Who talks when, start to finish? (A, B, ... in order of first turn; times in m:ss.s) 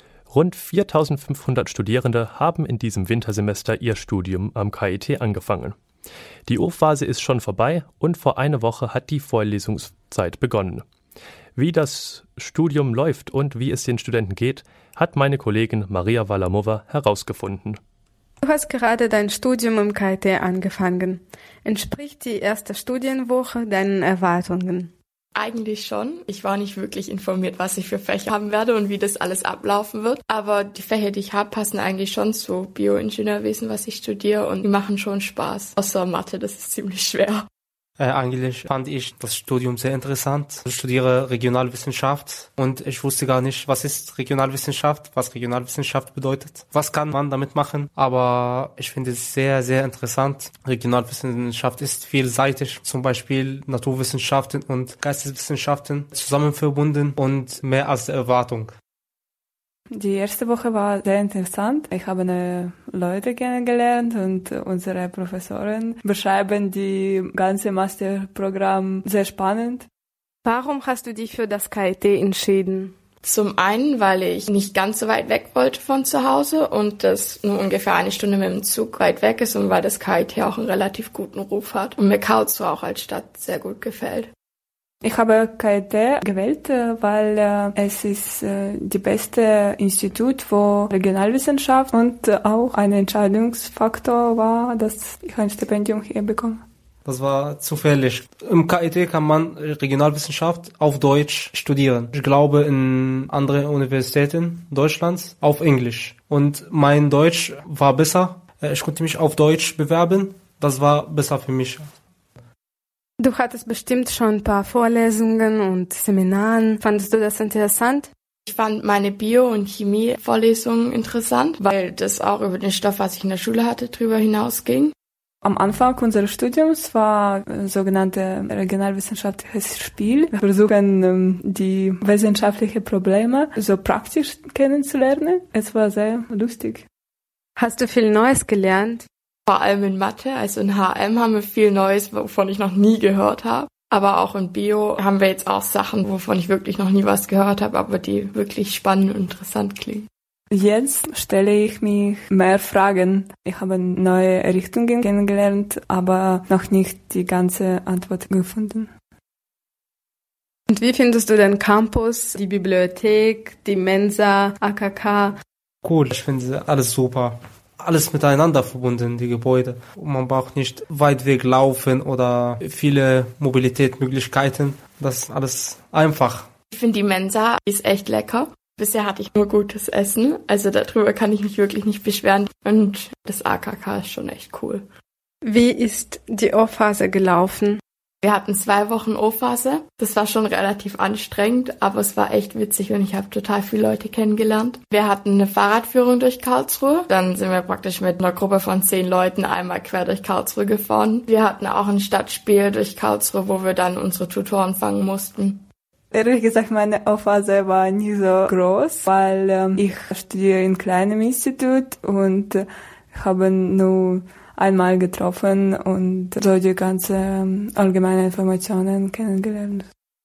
0:00.3-0:05.8 A
0:06.5-0:10.8 A
0:11.6-0:17.8 A
0:18.4-0:24.9 B
0:25.4-0:37.5 C
0:38.0-0:58.7 D
0:59.9-1:09.9 E
1:10.4-1:13.0 B
1:13.2-1:24.3 C
1:25.0-1:36.6 E
1:37.0-1:51.9 D
1:53.2-1:58.1 B
1:58.5-2:04.9 C
2:05.4-2:16.9 E
2:17.6-2:19.1 B
2:19.5-2:30.1 C
2:30.5-2:38.9 E
2:40.7-2:45.4 B
2:45.8-2:56.5 D
2:56.7-3:04.8 C
3:05.4-3:07.8 B
3:08.2-3:25.6 C
3:26.1-3:39.9 E